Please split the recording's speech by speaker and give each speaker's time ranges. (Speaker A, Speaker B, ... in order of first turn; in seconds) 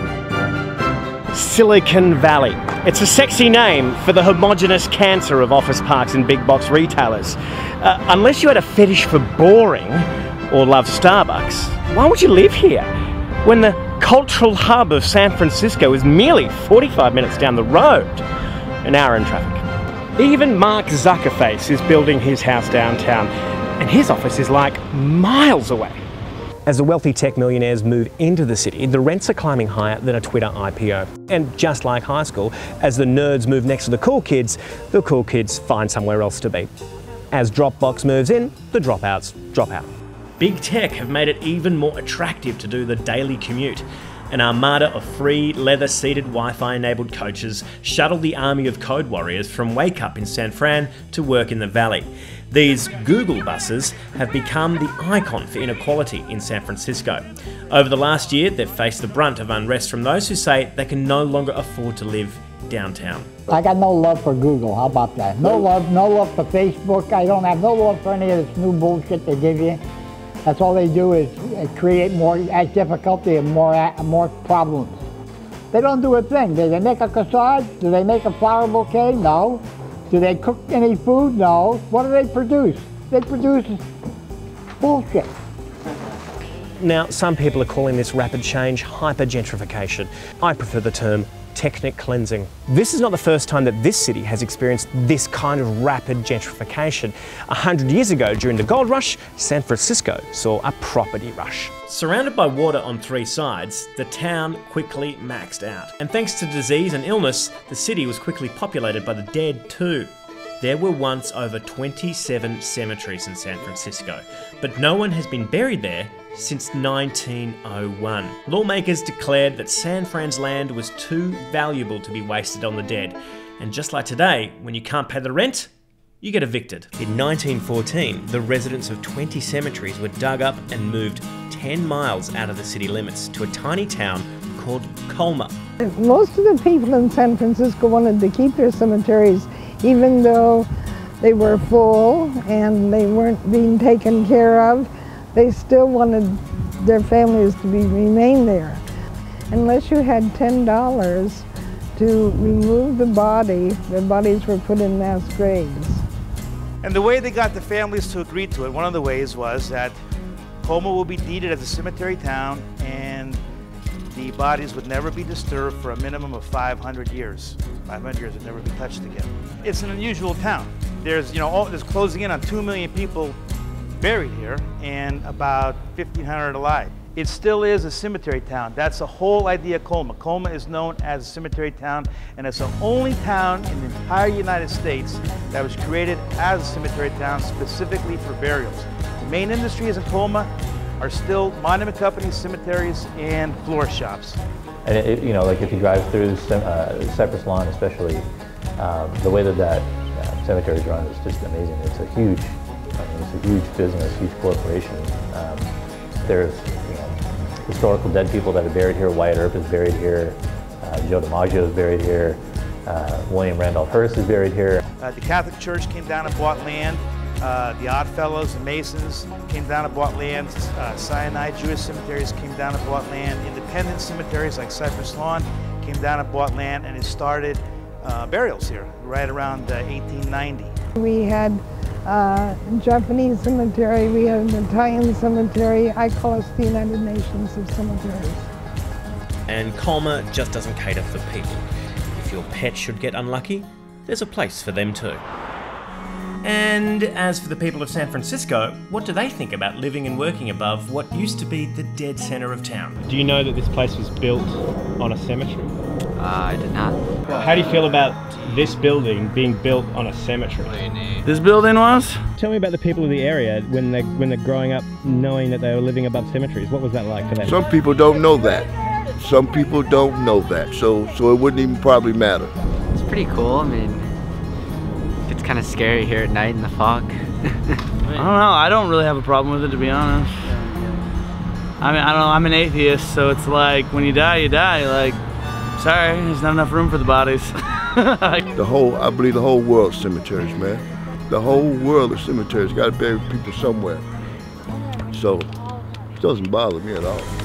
Speaker A: 1.3-12.9, 13.4-18.2, 18.8-19.6, 20.1-26.0, 26.6-36.7, 37.3-63.3, 86.8-125.7, 126.2-135.6, 239.5-245.2, 246.4-255.7, 257.3-260.8, 262.4-267.6
Speaker B: 63.5-69.8, 70.4-75.0, 75.7-83.8, 84.8-85.3
Speaker C: 135.8-140.7, 141.2-148.8, 149.5-156.0, 230.9-238.4
Speaker D: 156.8-160.0, 160.6-163.4, 164.1-173.4, 174.0-194.4, 215.0-230.8
Speaker E: 194.8-198.3, 198.8-205.7, 206.2-214.8
Speaker F: 256.2-257.0, 272.9-274.0, 275.3-277.2
Speaker G: 261.2-262.2, 278.1-280.5, 281.8-285.2, 285.8-288.4
Speaker H: 267.4-268.7, 269.2-272.5, 288.6-294.0, 295.1-295.5, 296.2-297.3